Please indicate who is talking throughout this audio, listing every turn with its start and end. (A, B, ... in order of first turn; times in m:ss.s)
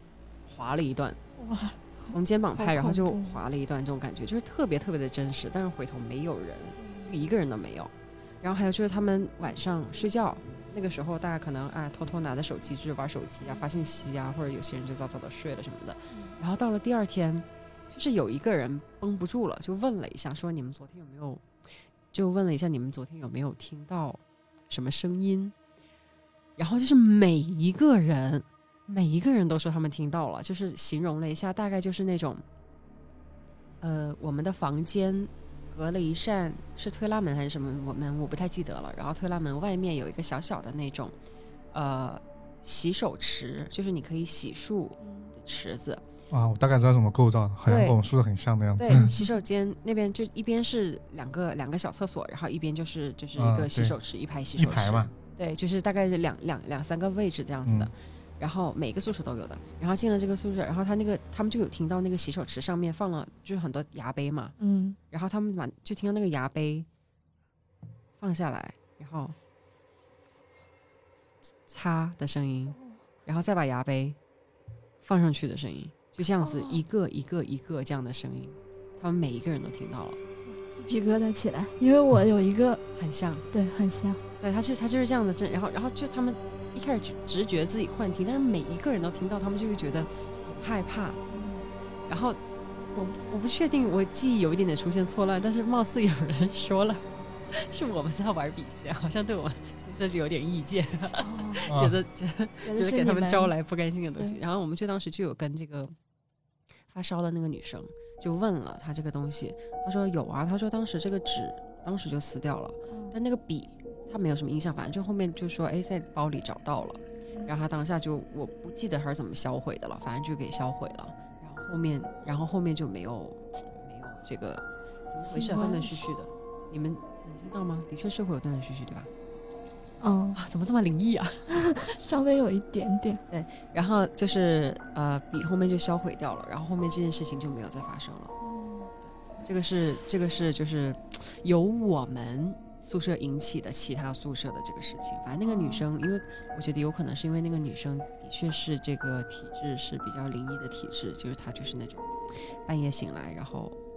0:00.5-0:01.2 A
0:01.4-0:03.4 B
0:02.1-0:21.4 A
0:06.8-0:07.1 B
0:16.1-0:16.4 B
0:22.1-0:25.5 A
0:26.6-0:32.4 A
0:33.8-0:41.1 A
0:41.7-0:46.0 A
0:45.0-0:45.3 B
0:46.3-0:49.1 C
0:47.6-0:48.0 A
0:48.8-1:04.5 A
0:48.9-0:49.3 B
0:53.4-0:54.0 C
0:54.6-0:55.1 C
0:57.6-0:57.9 C
1:04.6-1:05.0 B
1:05.1-1:06.9 A
1:08.2-1:09.4 A
1:11.6-1:14.2 A
1:15.0-1:20.2 A
1:16.4-1:16.8 B
1:20.4-1:22.8 B
1:22.9-1:23.4 A
1:23.5-1:24.2 B
1:24.4-1:31.2 A
1:31.3-1:31.6 B
1:32.1-1:32.4 A
1:32.9-1:45.9 A
1:41.2-1:41.7 B
1:41.7-1:42.0 C
1:42.6-1:43.5 B
1:46.9-2:09.1 A
2:05.2-2:06.0 B
2:10.0-2:10.4 B
2:10.3-2:11.9 A
2:11.6-2:13.2 B
2:13.3-2:18.3 A
2:18.4-2:18.9 B
2:19.1-2:33.8 A
2:25.4-2:25.8 B